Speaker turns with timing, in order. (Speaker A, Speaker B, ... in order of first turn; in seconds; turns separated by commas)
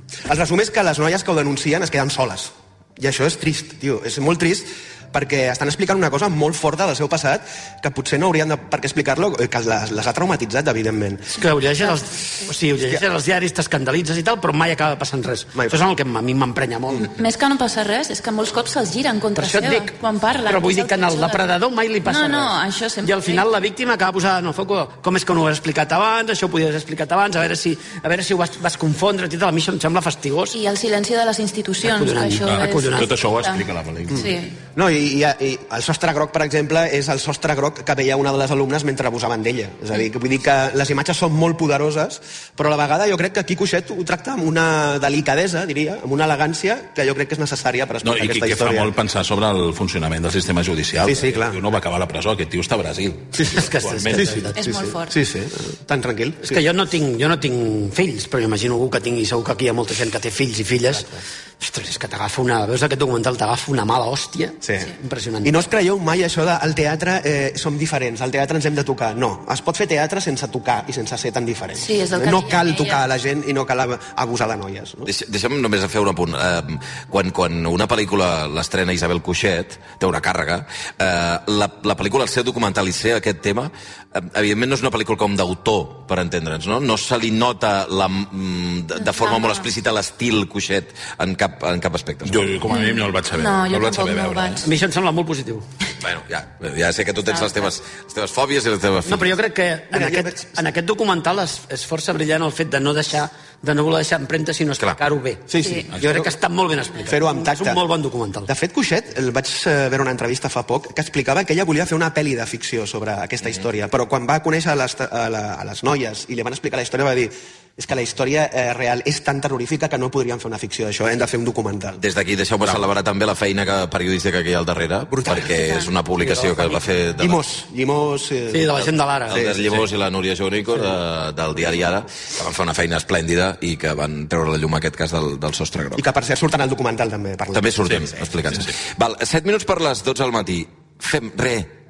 Speaker A: 0.3-11.3, Speaker B: 11.3-17.1, Speaker C: 11.9-12.5, Speaker A: 15.6-15.8, Speaker C: 17.0-21.5, Speaker B: 19.4-19.9, Speaker B: 20.5-30.6, Speaker C: 22.1-23.5, Speaker C: 30.5-34.6, Speaker B: 31.8-33.1, Speaker D: 32.5-34.3, Speaker A: 34.1-48.9, Speaker D: 48.0-54.4, Speaker A: 51.0-51.6, Speaker B: 53.4-54.6, Speaker A: 54.1-56.6, Speaker C: 54.6-55.2, Speaker B: 56.4-65.6, Speaker A: 64.6-75.1, Speaker C: 71.8-73.0, Speaker E: 75.1-92.6, Speaker C: 89.0-89.7, Speaker D: 92.2-94.7, Speaker C: 92.7-94.7, Speaker B: 94.6-95.6, Speaker E: 96.0-99.3, Speaker B: 99.1-108.5, Speaker A: 99.9-100.6, Speaker A: 105.5-106.3, Speaker C: 105.6-105.9, Speaker A: 107.1-107.8, Speaker A: 108.5-122.0, Speaker E: 122.0-127.4, Speaker A: 125.1-125.6, Speaker A: 126.2-128.8, Speaker B: 128.5-129.4, Speaker A: 129.3-129.9, Speaker E: 129.3-136.1, Speaker A: 136.0-138.1, Speaker E: 137.5-141.8